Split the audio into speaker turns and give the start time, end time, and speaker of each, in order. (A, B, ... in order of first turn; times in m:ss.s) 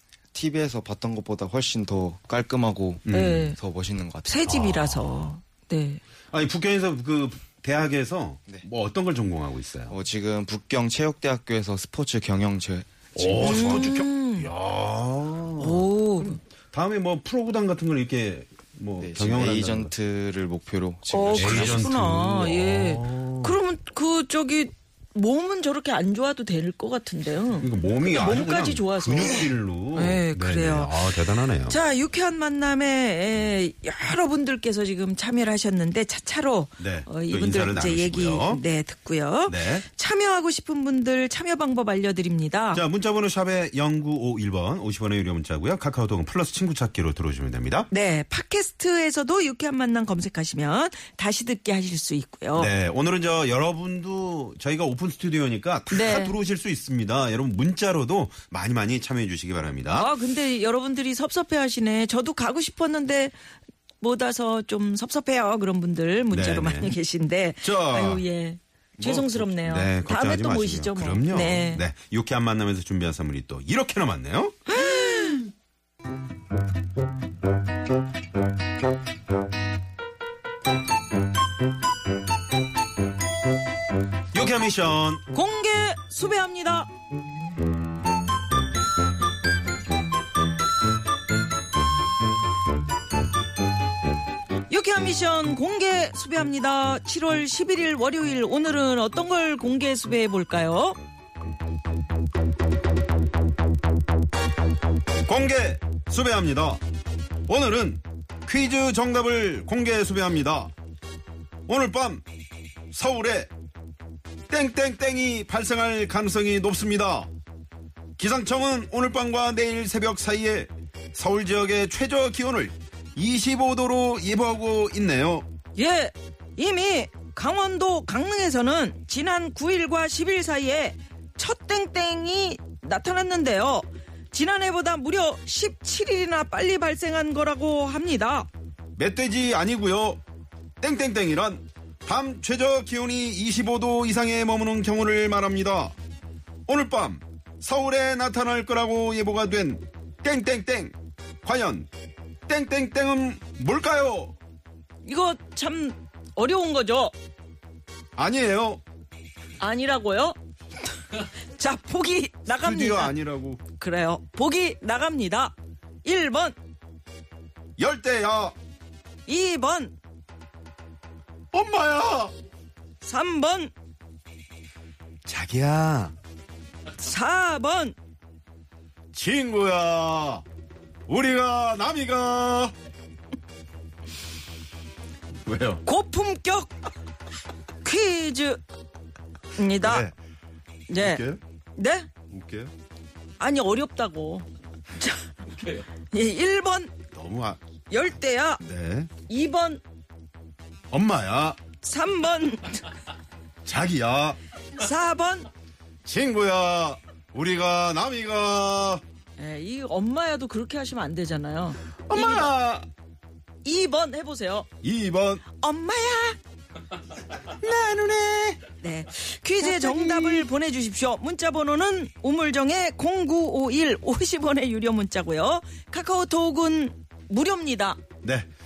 0:00.3-0:04.6 A
0:03.1-0:03.5 B
0:03.1-0:03.6 C
0:04.2-0:06.0 C
0:04.6-0:05.2 B
0:06.3-0:10.0 B
0:09.9-0:13.9 A
0:13.2-0:19.9 B
0:13.4-0:14.5 C
0:15.6-0:16.4 C
0:19.0-0:21.9 A
0:21.1-0:42.8 C
0:21.3-0:23.6 B
0:27.6-0:31.8 B
0:36.8-0:38.6 B
0:39.5-0:39.9 B
0:42.7-0:47.9 B
0:47.9-0:52.7 C
0:52.5-1:00.1 B
0:55.9-0:56.4 C
1:00.0-1:03.3 C
1:04.0-1:11.8 C
1:06.3-1:07.0 B
1:07.6-1:08.3 B
1:09.0-1:15.3 B
1:14.7-1:15.5 C
1:24.3-1:25.2 B
1:25.3-1:26.9 C
1:34.7-1:41.0 C
1:45.3-1:46.8 B
1:47.5-1:50.7 B
1:51.7-1:52.2 B
1:52.9-1:53.5 B
1:54.5-1:57.3 B
1:58.2-2:05.5 B
2:05.8-2:18.5 C
2:19.0-2:20.2 B
2:20.8-2:26.0 B
2:26.7-2:31.9 B
2:32.5-2:34.4 B
2:35.0-2:37.1 C
2:38.2-2:38.8 B
2:39.6-2:40.4 C
2:41.6-2:43.2 C
2:42.5-2:43.6 B
2:43.7-2:46.6 C
2:47.8-2:48.6 B
2:49.3-2:50.0 C
2:51.5-2:52.3 B
2:53.0-2:53.7 C
2:55.3-2:56.2 B
2:57.0-2:58.0 C
2:59.1-3:00.4 B
3:01.1-3:02.7 B
3:05.4-3:05.8 B
3:05.9-3:06.7 C
3:07.8-3:08.6 C
3:09.6-3:10.1 C
3:09.8-3:10.1 B
3:10.9-3:11.2 C
3:11.0-3:11.4 B
3:11.8-3:12.1 C
3:12.3-3:12.7 B
3:13.4-3:16.9 C
3:17.1-3:17.6 B
3:17.9-3:18.6 C
3:18.6-3:19.1 B
3:19.3-3:19.8 C
3:20.9-3:21.6 B
3:21.8-3:22.9 C
3:23.6-3:24.4 B
3:24.8-3:25.5 C
3:26.0-3:29.0 B
3:29.4-3:32.5 C
3:32.1-3:32.9 B
3:33.6-3:34.7 C
3:34.8-3:35.4 B
3:35.5-3:36.4 C
3:37.4-3:38.6 B
3:38.8-3:48.0 C
3:39.6-3:40.5 B